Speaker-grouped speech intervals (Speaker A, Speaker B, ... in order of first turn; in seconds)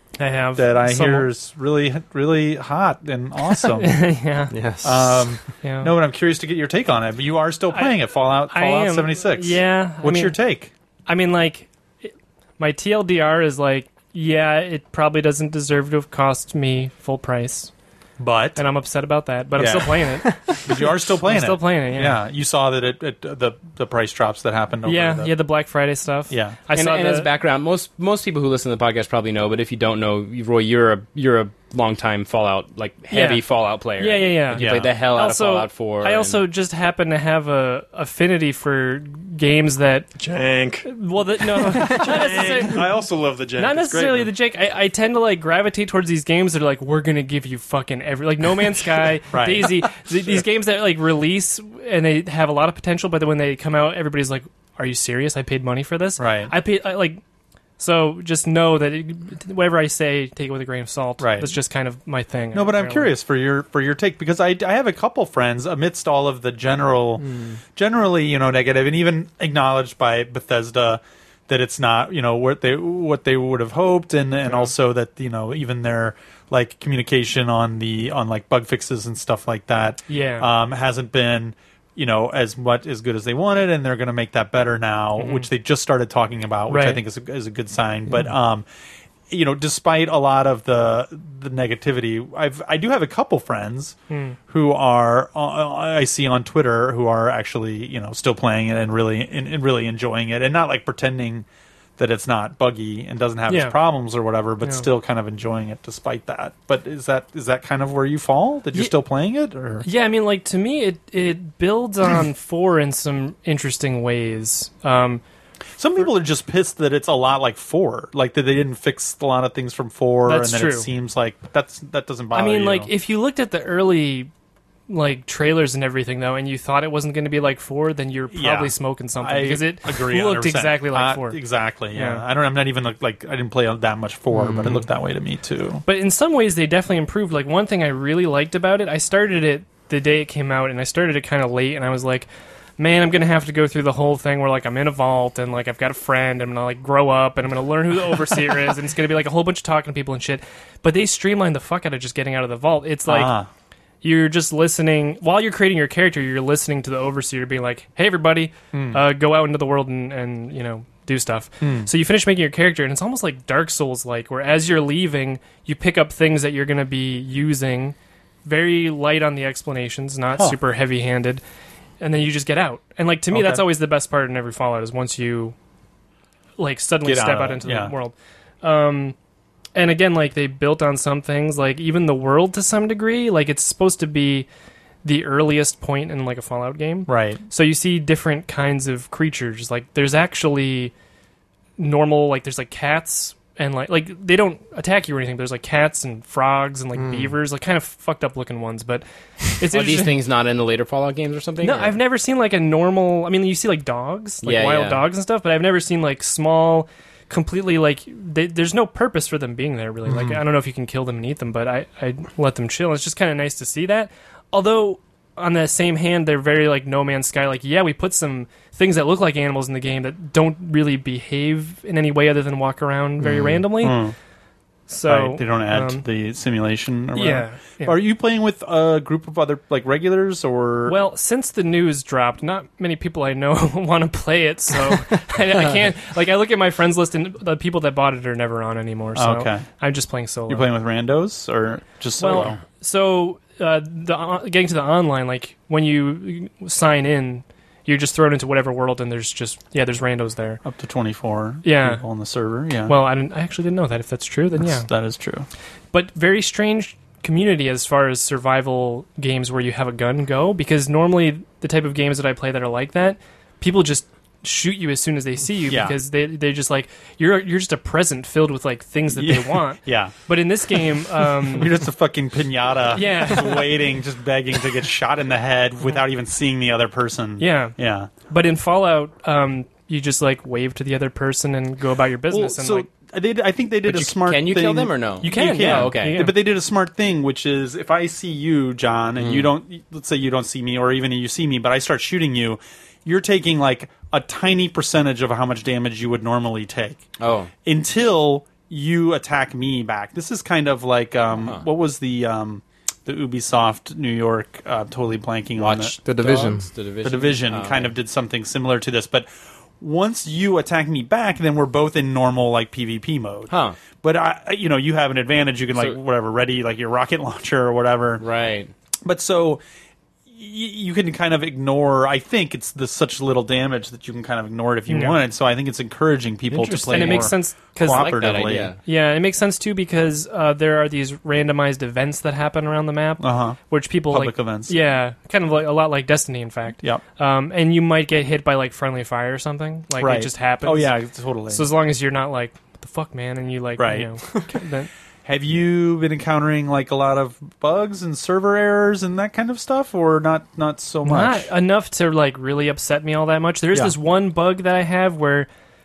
Speaker A: 0.2-1.3, 3.6-4.5, 5.6-5.9, 7.7-10.4, 11.1-17.7, 18.6-22.2, 24.9-27.3, 33.1-33.4, 34.0-40.1, 40.8-42.9, 43.6-57.2, 57.8-63.1, 74.5-74.7, 80.1-80.5, 85.2-85.5, 86.7-87.0, 94.1-94.4, 103.5-103.8, 104.6-104.9, 109.8-115.2, 120.3-120.9, 122.3-124.3, 124.9-131.4, 131.9-132.2, 135.8-153.3, 154.0-171.4, 172.0-175.6, 176.6-179.2, 179.8-184.5, 185.0-190.9, 191.8-200.2, 201.6-224.0, 224.9-226.1, 227.2-228.0, 230.9-240.7, 242.2-250.6, 251.6-252.0, 252.9-254.9, 255.9-271.8, 272.9-273.7, 277.4-277.8, 278.3-282.9, 285.2-286.4, 324.9-325.2, 326.9-328.2, 328.9-341.0, 341.5-344.9, 351.1-355.5
Speaker B: 0.6-4.0, 4.8-10.7, 18.2-18.6, 19.6-25.3, 26.3-26.6, 34.5-35.0, 49.3-49.9, 56.2-56.5, 61.2-61.6, 62.5-88.7, 89.3-94.0, 94.5-101.5, 102.0-109.9, 115.8-122.9, 128.3-135.8, 153.1-153.5, 158.7-159.0, 161.6-161.9, 173.3-173.6, 177.0-177.9, 187.1-187.4, 210.1-210.4, 223.8-224.2, 225.1-231.0, 239.2-239.7, 240.5-242.6, 250.7-252.9, 254.7-255.5, 265.7-265.9, 269.1-270.1, 271.4-278.1, 282.3-297.0, 297.6-306.0, 307.0-309.3, 309.8-318.2, 319.1-319.6, 320.3-328.7, 333.2-334.8, 340.0-341.7, 343.8-344.2, 345.2-351.5
Speaker C: 4.5-5.4, 134.3-134.8, 197.0-197.3, 223.2-223.7, 306.1-306.7
Speaker D: 26.7-36.4, 199.7-201.9, 204.4-205.0, 283.9-286.3, 289.2-289.5, 297.2-297.5, 301.4-301.7, 305.6-307.9, 313.5-313.8, 318.2-318.7, 326.5-327.3, 327.9-328.8
Speaker E: 40.2-44.3